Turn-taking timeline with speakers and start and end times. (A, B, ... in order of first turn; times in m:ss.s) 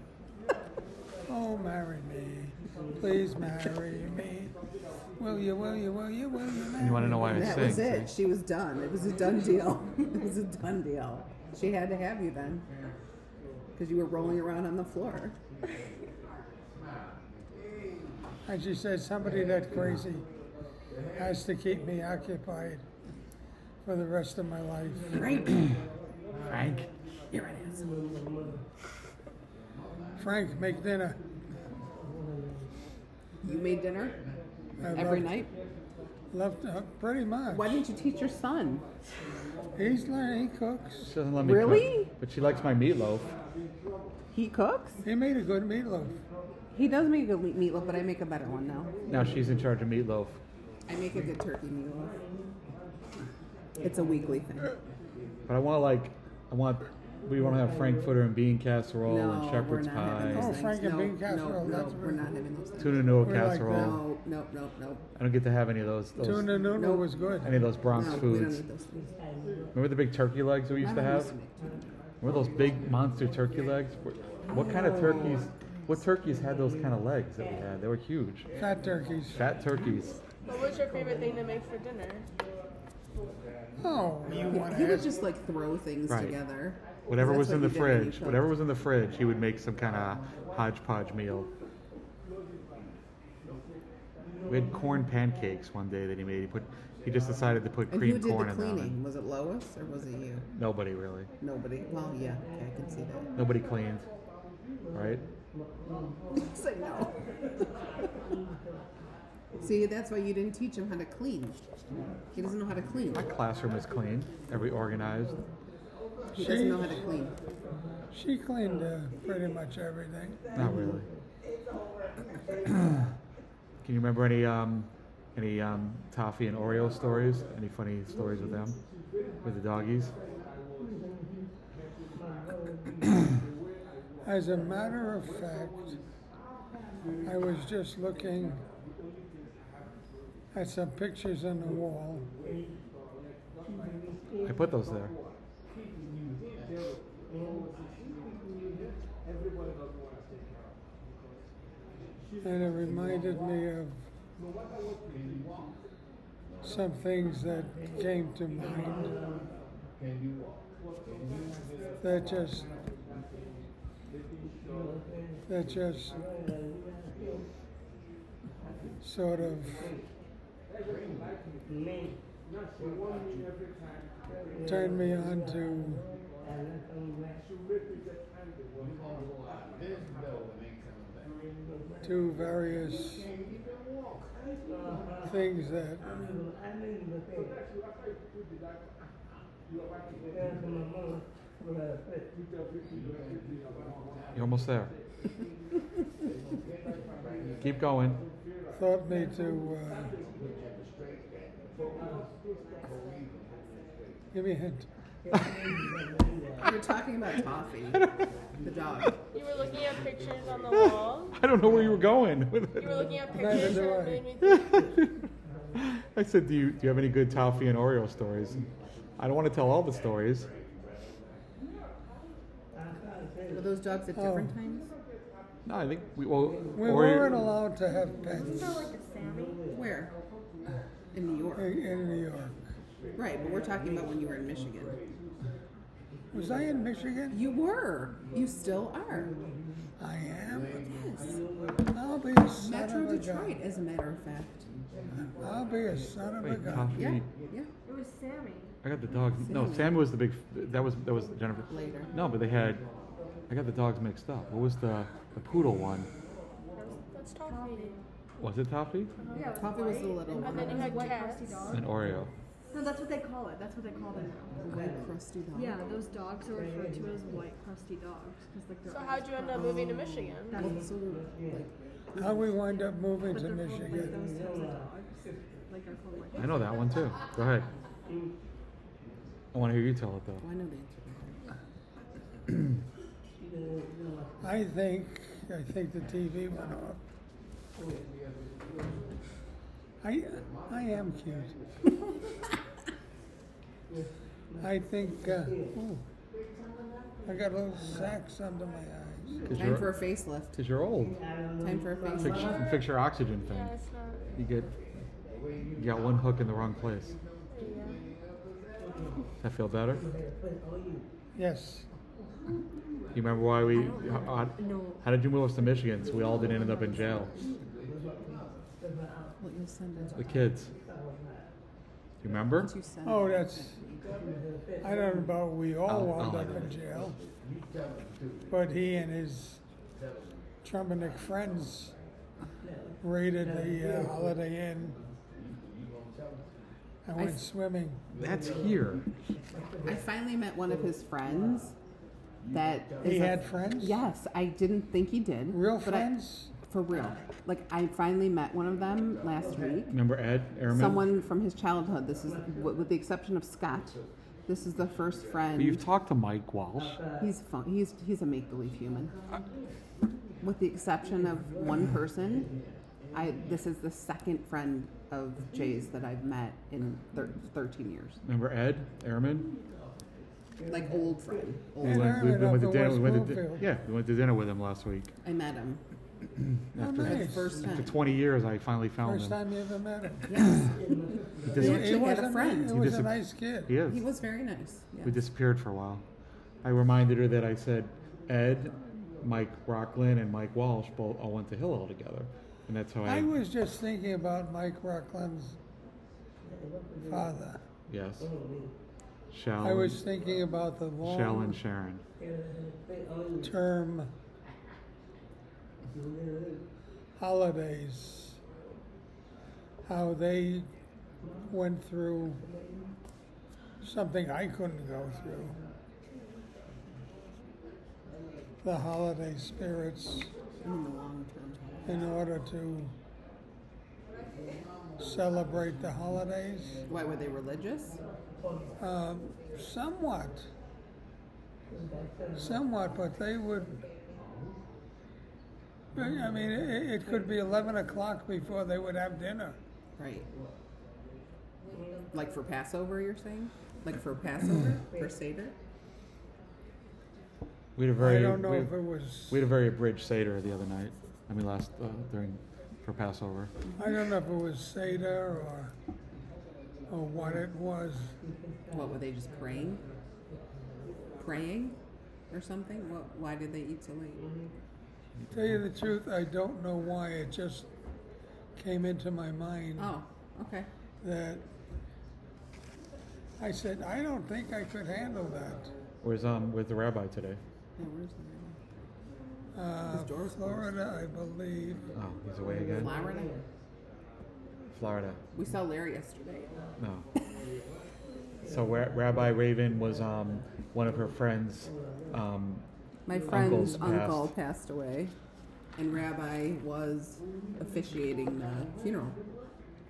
0:01.3-0:04.5 A
0:05.2-0:07.8 A
0:06.8-0:08.1 B
0:07.3-0:12.7 C
0:13.7-0:15.4 C
0:18.4-0:20.2 A
0:21.2-0:22.8 A
0:23.8-0:25.3 A
0:25.1-0:25.5 C
0:26.5-0:26.9 B
0:27.3-0:28.1 C
0:30.2-0:31.2 A
0:33.4-0:34.2 C
0:34.8-0:35.3 A
0:34.9-0:35.5 C
0:36.3-0:37.8 A
0:37.5-0:38.8 C
0:39.8-0:41.1 A
0:41.0-0:43.2 B
0:41.4-0:42.1 C
0:44.3-0:45.0 C
0:45.0-0:46.2 A
0:46.7-0:48.9 C
0:49.1-0:50.4 B
0:50.9-0:52.2 C
0:53.8-0:54.8 C
0:55.5-1:00.6 B
0:59.0-1:05.0 C
1:00.3-1:02.2 A
1:02.8-1:04.0 B
1:03.2-1:04.0 A
1:05.2-1:06.5 B
1:06.2-1:07.5 A
1:06.7-1:07.1 C
1:07.4-1:08.6 B
1:07.9-1:09.0 C
1:09.7-1:11.3 B
1:10.8-1:12.8 C
1:12.2-1:18.5 B
1:14.5-1:15.4 C
1:18.6-1:19.4 A
1:19.3-1:20.2 B
1:20.4-1:22.3 D
1:23.8-1:25.1 A
1:24.5-1:28.4 C
1:26.1-1:26.4 B
1:27.1-1:31.5 B
1:34.5-1:39.0 B
1:37.9-1:40.4 C
1:40.5-1:41.3 B
1:41.4-1:43.3 C
1:43.3-1:44.1 B
1:44.9-1:45.2 B
1:46.3-1:47.6 C
1:49.6-1:51.6 C
1:52.3-1:53.3 C
1:53.1-1:55.4 B
1:56.3-1:57.3 C
1:56.3-1:57.0 A
1:58.1-2:00.5 A
2:00.5-2:01.1 B
2:03.8-2:08.8 B
2:09.4-2:10.2 B
2:14.2-2:16.0 A
2:17.2-2:18.6 A
2:20.5-2:22.3 A
2:24.4-2:25.1 B
2:32.4-2:34.0 A
2:36.6-2:39.2 A
2:42.0-2:42.7 A
2:45.5-2:46.2 A
2:49.0-2:49.9 A
2:54.6-2:56.0 A
3:02.0-3:03.3 A
3:05.2-3:06.0 A
3:14.3-3:14.9 B
3:17.6-3:18.2 B
3:18.7-3:20.2 A
3:24.3-3:24.9 A
3:26.6-3:29.1 C
3:29.3-3:31.4 D
3:30.7-3:33.0 B
3:32.8-3:34.8 D
3:33.3-3:34.2 A
3:34.4-3:35.2 B
3:35.8-3:40.5 B
3:43.5-3:44.9 C
3:44.1-3:44.5 A
3:45.6-3:47.4 B
3:46.7-3:48.9 A
3:48.3-3:49.6 E
3:49.7-3:50.1 C
3:51.1-3:51.7 C
3:51.6-3:52.6 A
3:53.1-3:55.0 C
3:56.3-3:57.4 A
3:57.3-3:59.3 C
4:00.0-4:00.8 A
4:00.8-4:01.4 C
4:01.9-4:03.6 A
4:02.6-4:04.7 C
4:05.2-4:07.0 A
4:06.4-4:07.3 B
4:06.9-4:07.7 C
4:07.8-4:08.7 E
4:08.8-4:12.9 B
4:09.4-4:10.0 C
4:11.7-4:12.1 C
4:13.5-4:16.1 B
4:16.8-4:18.0 D
4:16.9-4:18.0 E
4:18.4-4:19.1 B
4:19.2-4:19.8 D
4:19.3-4:21.9 E
4:19.5-4:21.0 C
4:20.3-4:21.8 D
4:21.7-4:22.3 B
4:22.7-4:24.8 E
4:24.6-4:25.9 C
4:25.5-4:30.8 E
4:28.8-4:30.7 D
4:30.5-4:32.5 C
4:32.2-4:34.2 A
4:33.3-4:37.1 E
4:36.4-4:37.7 B
4:39.5-4:40.4 B
4:40.4-4:41.4 C
4:44.4-4:47.0 A
4:50.0-4:51.6 A
4:54.6-4:56.0 A
4:57.2-4:59.5 A
4:59.5-5:01.2 B
4:59.5-5:00.5 C
5:01.6-5:02.5 C
5:02.2-5:03.8 B
5:03.5-5:04.3 D
5:04.3-5:04.7 B
5:05.8-5:07.2 B
5:07.5-5:08.0 D
5:09.4-5:10.0 B
5:11.3-5:11.9 A
5:13.1-5:17.3 B
5:13.7-5:15.1 E
5:19.4-5:20.3 C
5:20.2-5:20.7 B
5:22.2-5:22.7 B
5:22.6-5:23.8 C
5:23.0-5:23.8 A
5:24.8-5:27.2 A
5:25.8-5:26.7 B
5:28.5-5:29.6 A
5:30.6-5:31.9 A
5:33.0-5:35.0 A
5:37.0-5:38.0 A
5:37.2-5:37.4 C
5:38.2-5:39.0 B
5:39.8-5:41.7 C
5:42.5-5:50.0 C
5:43.0-5:44.0 A
5:45.5-5:46.5 A
5:49.9-5:51.0 B
5:50.7-5:55.8 C
5:55.6-5:57.0 B
5:57.2-5:59.1 C
6:00.4-6:02.5 C
6:03.1-6:08.2 C
6:08.2-6:09.5 B
6:10.7-6:12.2 C
6:11.8-6:15.1 B
6:11.8-6:13.6 A
6:15.2-6:15.8 C
6:16.7-6:19.4 B
6:16.8-6:17.5 A
6:17.0-6:18.0 C
6:19.0-6:20.3 A
6:20.3-6:22.9 C
6:21.5-6:23.7 A
6:21.5-6:22.0 B
6:22.7-6:23.1 B
6:23.6-6:24.0 B
6:23.9-6:25.2 C
6:25.0-6:26.0 B
6:26.6-6:33.3 B
6:33.0-6:35.6 A
6:37.0-6:37.6 A
6:37.9-6:38.3 B
6:39.3-6:40.0 B
6:39.6-6:41.6 A
6:41.0-6:42.0 B
6:43.4-6:44.1 A
6:47.2-6:48.4 A
6:49.8-6:50.7 A
6:51.5-6:52.4 A
6:53.8-6:55.6 A
6:58.6-7:00.3 A
7:00.6-7:01.9 C
7:01.8-7:02.9 A
7:05.0-7:06.8 A
7:06.9-7:08.0 C
7:08.8-7:10.5 A
7:12.4-7:13.8 A
7:15.9-7:19.6 A
7:20.0-7:20.3 C
7:22.1-7:25.5 C
7:27.8-7:33.5 B
7:28.0-7:29.4 A
7:33.8-7:35.7 A
7:36.9-7:38.2 A
7:38.7-7:39.8 C
7:41.2-7:41.8 C
7:42.3-7:44.2 C
7:45.2-7:45.6 B
7:45.3-7:47.7 A
7:48.6-7:49.9 A
7:49.8-7:50.7 C
7:51.0-7:51.4 A
7:53.4-7:55.7 A
7:56.0-7:57.4 B
7:57.8-7:58.6 C
7:59.5-8:01.9 A
7:59.9-8:00.7 C
8:01.9-8:02.9 B
8:02.7-8:03.3 C
8:04.7-8:05.2 B
8:05.3-8:06.5 C
8:06.8-8:07.0 B
8:08.4-8:12.6 B
8:13.0-8:15.1 C
8:13.2-8:14.3 B
8:15.8-8:19.2 C